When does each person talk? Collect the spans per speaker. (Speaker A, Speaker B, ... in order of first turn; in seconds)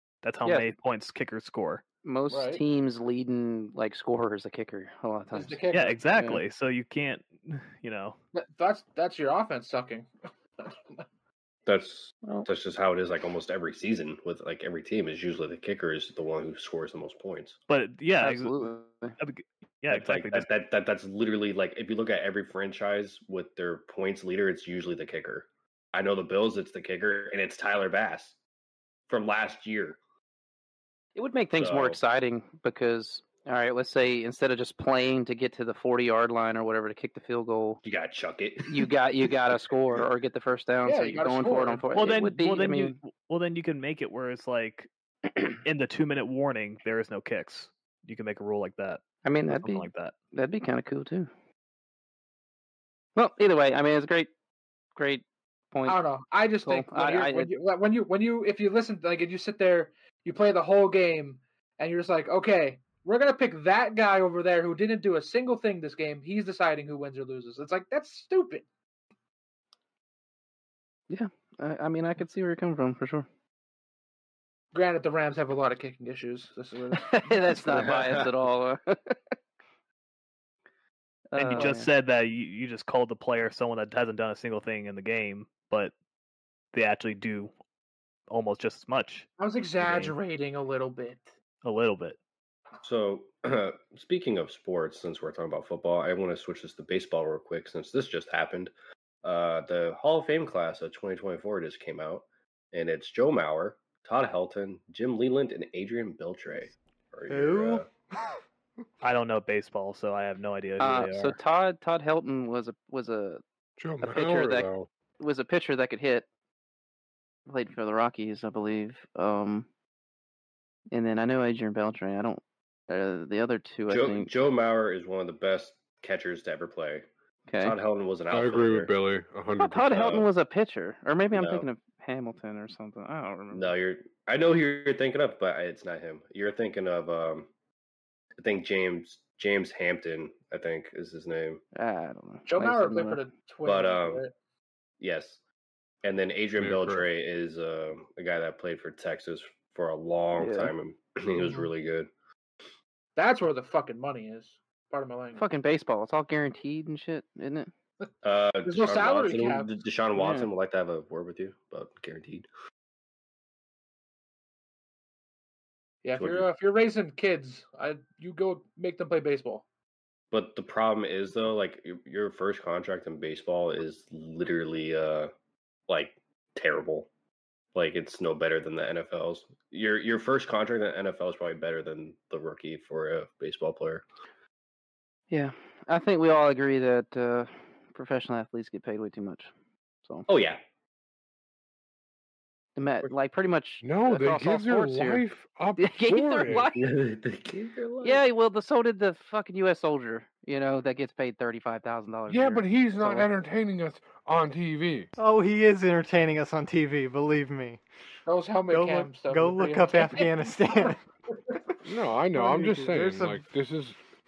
Speaker A: 0.2-1.8, 5.7-8.2, 17.7-18.7, 19.2-20.5, 41.9-44.9, 45.6-50.1, 81.3-85.9, 86.7-87.5, 88.3-89.3, 89.8-90.1, 91.6-92.2, 109.0-111.4
Speaker B: 2.0-6.4, 18.2-19.1, 31.1-37.8, 38.6-43.0, 49.2-51.3, 53.1-54.3, 54.9-56.0, 56.6-57.5, 71.1-73.3, 76.9-79.2, 81.3-81.9, 110.8-113.4, 114.0-114.7, 115.2-116.3, 117.5-119.7, 120.9-124.3, 127.5-127.8, 129.6-133.7, 141.7-143.2, 150.3-150.7, 155.3-157.7, 160.1-160.5, 185.3-189.5, 192.8-195.2, 195.8-196.9, 198.0-203.3
Speaker C: 2.3-2.6, 5.3-6.0, 8.3-10.1, 10.6-11.0, 40.8-41.9, 55.9-68.6, 74.7-78.0, 89.4-91.3, 142.5-144.3, 151.4-151.7, 153.2-155.4, 158.6-159.7, 166.0-169.6, 208.3-210.9
Speaker D: 11.7-17.6, 19.9-28.4, 29.1-30.0, 31.5-32.0, 37.8-39.4, 77.8-78.2, 92.8-98.7, 99.2-107.8, 123.9-127.0, 127.6-128.9, 131.3-131.7, 133.5-137.5, 138.4-141.6, 143.6-144.2, 145.0-145.4, 146.0-152.1, 158.2-162.5, 166.2-166.4, 170.3-175.3, 175.9-177.1, 177.7-184.0, 190.3-190.6, 196.7-198.2
Speaker E: 107.3-107.8, 205.2-207.8, 208.7-211.0, 212.3-213.4
Speaker F: 113.8-114.9, 128.3-130.2, 146.6-147.1, 193.8-196.7, 202.3-205.1, 211.8-214.0